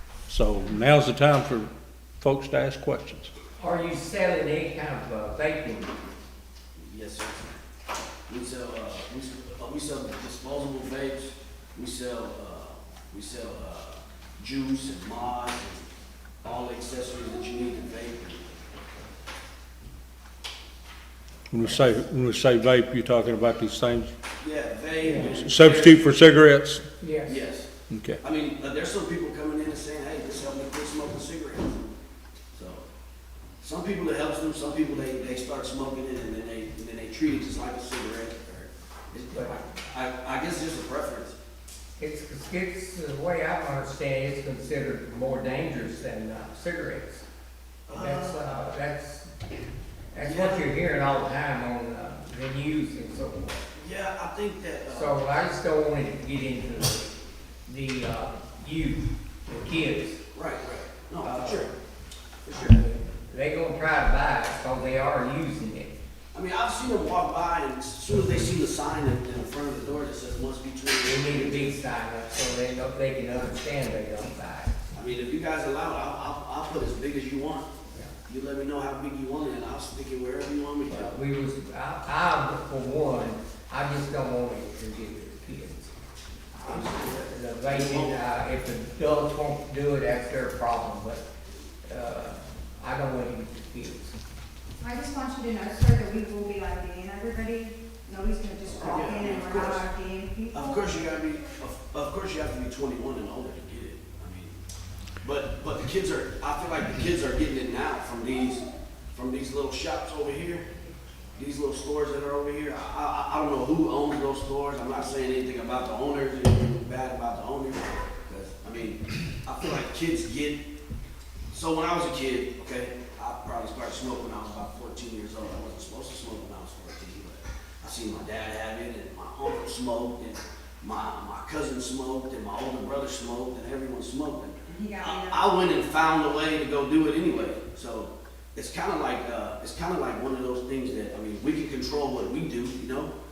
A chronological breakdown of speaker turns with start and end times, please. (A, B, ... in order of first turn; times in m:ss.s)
0:00.3-0:03.3 A
0:03.6-0:06.0 B
0:06.8-0:07.5 C
0:08.3-0:15.8 C
0:16.4-0:18.4 C
0:21.5-0:24.1 A
0:24.4-0:26.2 C
0:25.0-0:25.3 B
0:25.2-0:26.8 A
0:27.0-0:27.4 B
0:27.3-0:27.7 C
0:27.9-0:28.2 A
0:28.2-0:31.8 C
0:32.5-0:32.8 C
0:33.6-0:41.4 C
0:42.0-0:47.2 B
0:47.9-0:48.4 C
0:47.9-0:49.3 B
0:50.1-0:53.6 B
0:50.2-0:50.7 C
0:53.7-0:55.2 C
0:54.9-0:57.1 B
0:57.7-1:00.2 B
1:00.3-1:01.7 C
1:01.2-1:01.7 B
1:02.5-1:02.8 C
1:02.5-1:05.9 B
1:06.3-1:11.8 C
1:11.0-1:14.8 B
1:14.9-1:17.7 C
1:18.3-1:21.1 C
1:20.9-1:25.9 B
1:26.6-1:28.2 C
1:26.6-1:31.2 B
1:31.9-1:34.2 B
1:34.8-1:41.0 D
1:38.8-1:39.9 C
1:40.5-1:44.6 C
1:45.2-1:50.7 C
1:51.4-2:00.6 C
2:01.5-2:23.1 C
2:14.7-2:15.5 D